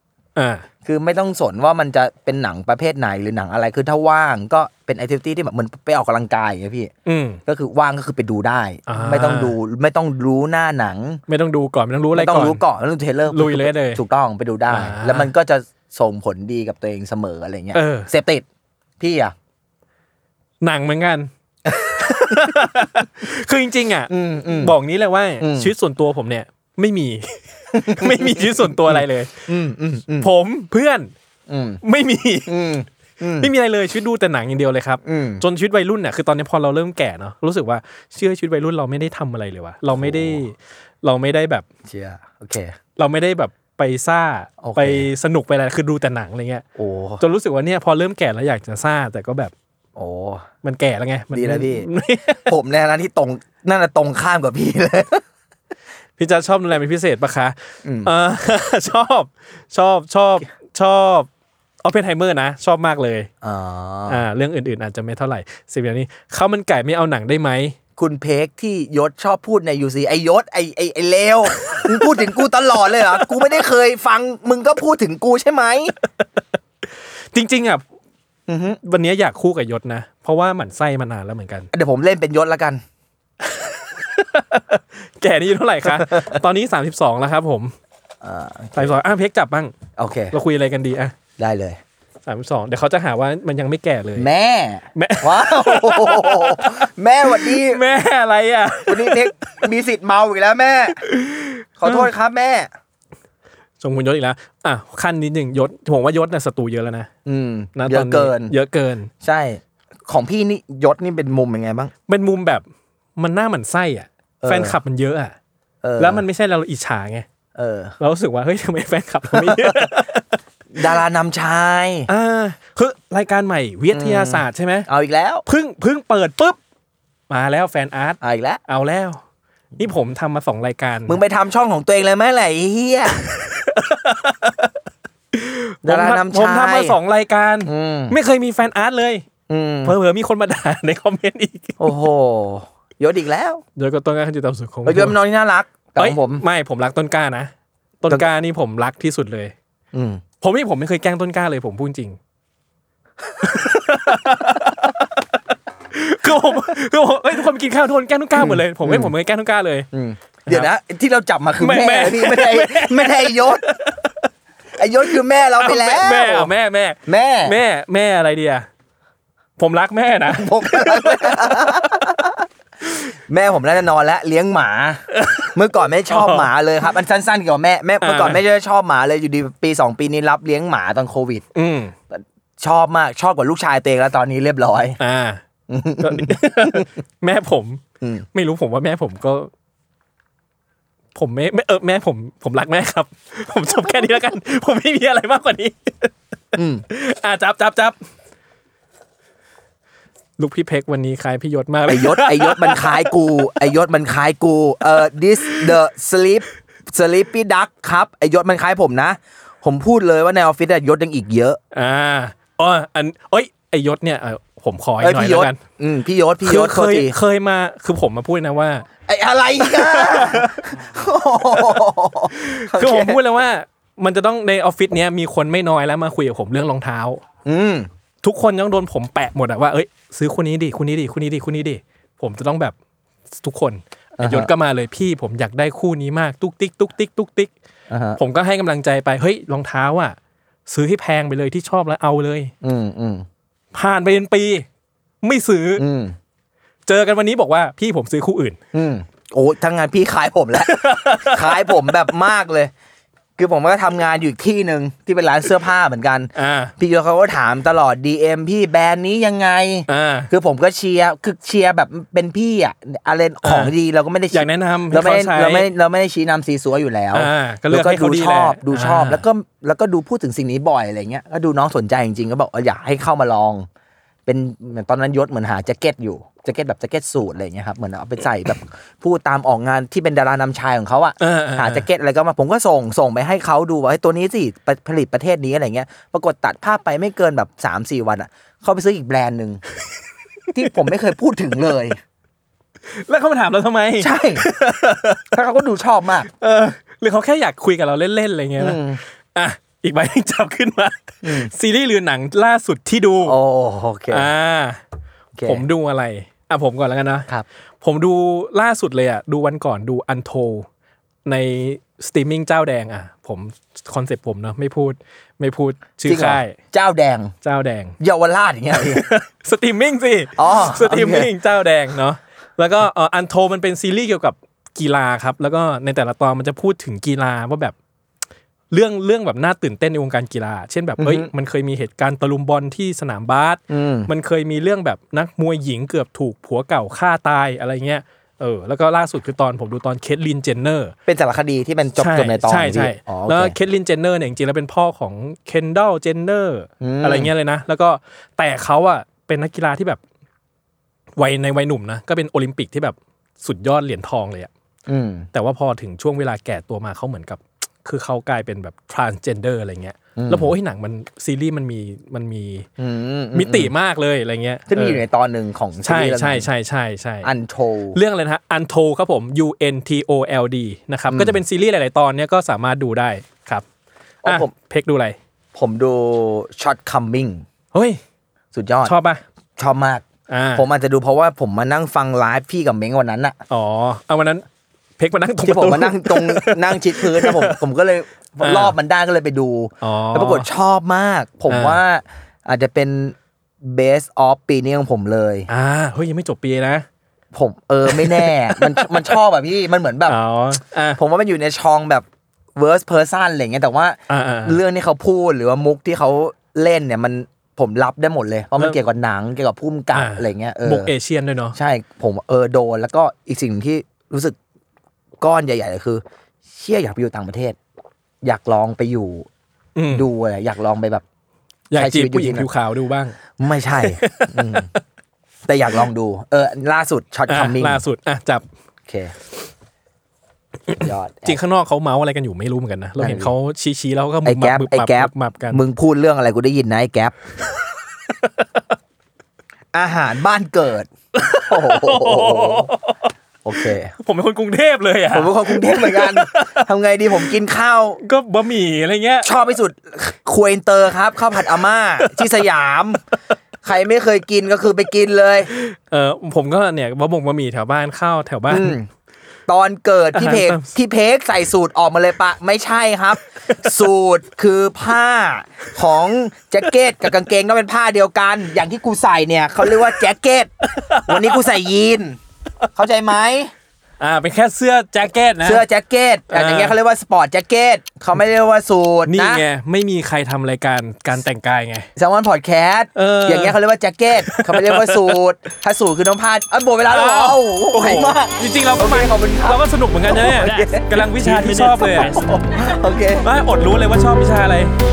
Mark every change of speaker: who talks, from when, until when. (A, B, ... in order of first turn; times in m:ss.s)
0:00.4-0:00.6 A
0:00.8-0:06.9 B
0:07.0-0:07.4 A
0:07.4-0:11.2 B
0:08.9-0:09.6 A
0:11.3-0:12.6 A
0:12.1-0:18.4 B
0:13.3-0:14.0 A
0:14.7-0:15.3 A
0:17.7-0:18.1 A
0:19.0-0:19.3 B
0:20.6-0:29.5 A
0:24.1-0:24.8 B
0:25.4-0:25.7 B
0:27.7-0:30.3 B
0:30.2-0:31.1 A
0:31.5-0:31.8 B
0:31.8-0:32.7 A
0:32.5-0:33.5 B
0:33.4-0:41.6 A
0:35.0-0:35.4 B
0:40.0-0:40.4 B
0:41.8-0:42.8 B
0:43.0-0:46.6 A
0:44.6-0:45.1 B
0:46.8-0:47.2 B
0:47.2-0:49.5 A
0:50.0-0:50.4 B
0:50.6-0:52.5 A
0:51.3-0:51.9 B
0:52.4-0:55.2 B
0:56.2-1:01.3 A
0:57.8-0:58.1 B
1:01.8-1:03.3 A
1:03.4-1:04.2 B
1:04.1-1:07.8 A
1:08.0-1:15.9 B
1:11.6-1:12.0 A
1:17.3-1:17.8 A
1:18.5-1:18.8 B
1:18.8-1:21.7 A
1:21.7-1:22.8 B
1:23.5-1:27.8 A
1:25.8-1:26.2 B
1:28.2-1:29.0 B
1:28.8-1:29.7 A
1:30.0-1:30.3 B
1:30.3-1:31.2 A
1:31.4-1:31.8 B
1:32.2-1:34.3 A
1:34.1-1:37.9 B
1:34.9-1:39.6 A
1:38.8-1:41.0 B
1:40.9-1:42.1 A
1:41.8-1:42.7 B
1:43.8-1:47.1 A
1:47.2-1:48.5 B
1:47.7-1:49.1 A
1:49.2-1:51.9 B
1:52.1-1:55.4 A
1:54.4-1:54.8 B
1:55.8-1:56.2 B
1:56.0-1:57.2 A
1:57.6-1:58.0 B
1:58.0-2:01.0 A
1:59.3-1:59.8 B
2:00.7-2:02.1 B
2:02.1-2:04.9 A
2:03.9-2:05.4 B
2:05.4-2:06.6 A
2:07.3-2:09.2 A
2:08.2-2:08.6 B
2:09.8-2:11.2 A
2:11.1-2:13.2 B
2:13.3-2:14.6 A
2:15.3-2:19.3 A
2:15.8-2:17.0 B
2:17.6-2:18.2 B
2:19.5-2:20.0 B
2:19.8-2:21.9 A
2:21.8-2:23.6 B
2:23.8-2:25.2 A
2:24.8-2:26.4 B
2:26.0-2:29.5 A
2:29.9-2:30.2 B
2:30.4-2:32.2 A
2:33.4-2:35.2 A
2:35.9-2:39.9 A
2:38.4-2:39.1 B
2:39.9-2:43.7 B
2:41.6-2:44.1 A
2:44.8-2:46.5 B
2:45.1-2:48.7 A
2:47.0-2:47.6 B
2:49.6-2:52.0 A
2:50.2-2:52.4 B
2:53.1-2:55.0 B
2:55.1-2:55.5 A
2:55.5-3:01.4 B
2:56.1-2:56.5 A
2:58.0-2:58.4 A
3:01.5-3:01.9 A
3:02.1-3:05.0 B
3:05.0-3:05.4 A
3:05.7-3:06.8 B
3:06.0-3:07.8 A
3:08.0-3:08.3 B
3:08.3-3:09.5 A
3:11.1-3:16.1 A
3:16.5-3:16.8 B
3:16.9-3:18.0 A
3:20.4-3:23.2 A
3:21.8-3:31.6 B
3:25.5-3:25.8 A
3:31.7-3:35.6 A
3:35.0-3:37.2 B
3:36.4-3:38.8 A
3:39.1-3:43.2 B
3:39.6-3:40.5 A
3:42.4-3:47.2 A
3:47.4-3:47.9 B
3:48.2-3:52.8 A
3:53.4-3:57.5 A
3:54.2-3:54.5 B
3:57.9-3:58.2 B
3:58.2-4:02.5 A
4:02.6-4:03.2 B
4:03.7-4:04.6 A
4:05.2-4:05.9 A
4:05.8-4:06.2 B
4:06.8-4:08.6 A
4:08.7-4:12.7 B
4:10.6-4:11.9 A
4:13.4-4:33.7 B
4:16.3-4:16.7 A
4:19.9-4:20.3 A
4:23.4-4:23.7 A
4:24.3-4:25.7 A
4:27.1-4:29.2 A
4:34.2-4:49.6 B
4:41.2-4:41.9 A
4:50.5-4:52.0 B
4:52.9-4:55.3 A
4:54.0-4:54.5 B
4:55.3-4:56.3 B
4:56.3-5:03.4 A
4:58.6-4:59.0 B
5:01.2-5:01.5 B
5:03.2-5:04.3 B
5:04.1-5:04.8 A
5:05.3-5:05.6 B
5:05.4-5:07.3 A
5:07.8-5:10.7 A
5:11.2-5:16.6 A
5:16.0-5:17.3 B
5:17.4-5:18.0 A
5:18.0-5:19.0 B
5:18.7-5:27.8 A
5:20.4-5:21.3 B
5:28.7-5:40.9 A
5:31.0-5:31.3 B
5:33.7-5:34.1 B
5:41.1-5:43.6 B
5:42.0-5:50.0 A
5:46.8-5:47.3 B
5:51.2-5:54.5 A
5:54.9-5:55.3 B
5:55.3-6:02.7 A
6:00.2-6:00.5 B
6:02.8-6:03.7 B
6:03.3-6:05.0 A
6:04.7-6:06.5 B
6:05.8-6:07.3 A
6:07.2-6:08.0 B
6:07.9-6:13.6 A
6:11.1-6:11.4 B
6:14.2-6:14.5 B
6:14.2-6:15.2 A
6:15.5-6:17.4 B
6:17.7-6:18.0 A
6:18.5-6:19.0 B
6:18.8-6:19.2 A
6:19.6-6:23.4 B
6:20.3-6:20.7 A
6:23.5-6:24.4 A
6:25.0-6:27.6 A
6:25.4-6:35.5 B
6:28.4-6:28.8 A
6:29.8-6:30.5 A
6:31.5-6:31.8 A
6:35.5-6:36.8 A
6:37.3-6:40.2 B
6:37.8-6:39.1 A
6:40.0-6:41.0 A
6:41.0-6:50.9 B
6:44.1-6:44.6 A
6:49.9-6:51.6 A
6:51.5-6:54.4 B
6:55.2-6:57.6 B
6:58.2-6:59.3 B
6:59.8-7:00.1 A
6:59.9-7:01.0 B
7:01.7-7:03.2 A
7:01.7-7:02.5 B
7:03.4-7:04.7 B
7:03.8-7:04.6 A
7:05.4-7:07.8 B
7:07.3-7:08.5 A
7:08.9-7:09.1 B
7:10.7-7:15.6 A
7:10.7-7:11.4 B
7:13.0-7:13.3 B
7:14.2-7:17.1 B
7:18.1-7:18.4 A
7:19.7-7:22.7 B
7:21.1-7:27.4 A
7:23.4-7:23.9 B
7:25.1-7:28.0 B
7:28.0-7:29.3 A
7:29.2-7:33.0 B
7:32.0-7:32.3 A
7:33.6-7:35.5 B
7:35.5-7:38.8 A
7:38.5-7:38.9 B
7:39.5-7:50.5 B
7:40.1-7:40.8 A
7:43.5-7:43.8 A
7:50.6-7:51.4 A
7:51.0-7:52.2 B
7:52.7-7:53.5 B
7:54.0-7:55.6 A
7:55.4-7:59.4 B
7:56.3-7:56.8 A
7:59.0-8:01.9 A
8:02.0-8:13.3 B
8:02.9-8:03.6 A
8:04.2-8:05.2 A
8:06.9-8:12.3 A
8:13.2-8:14.7 A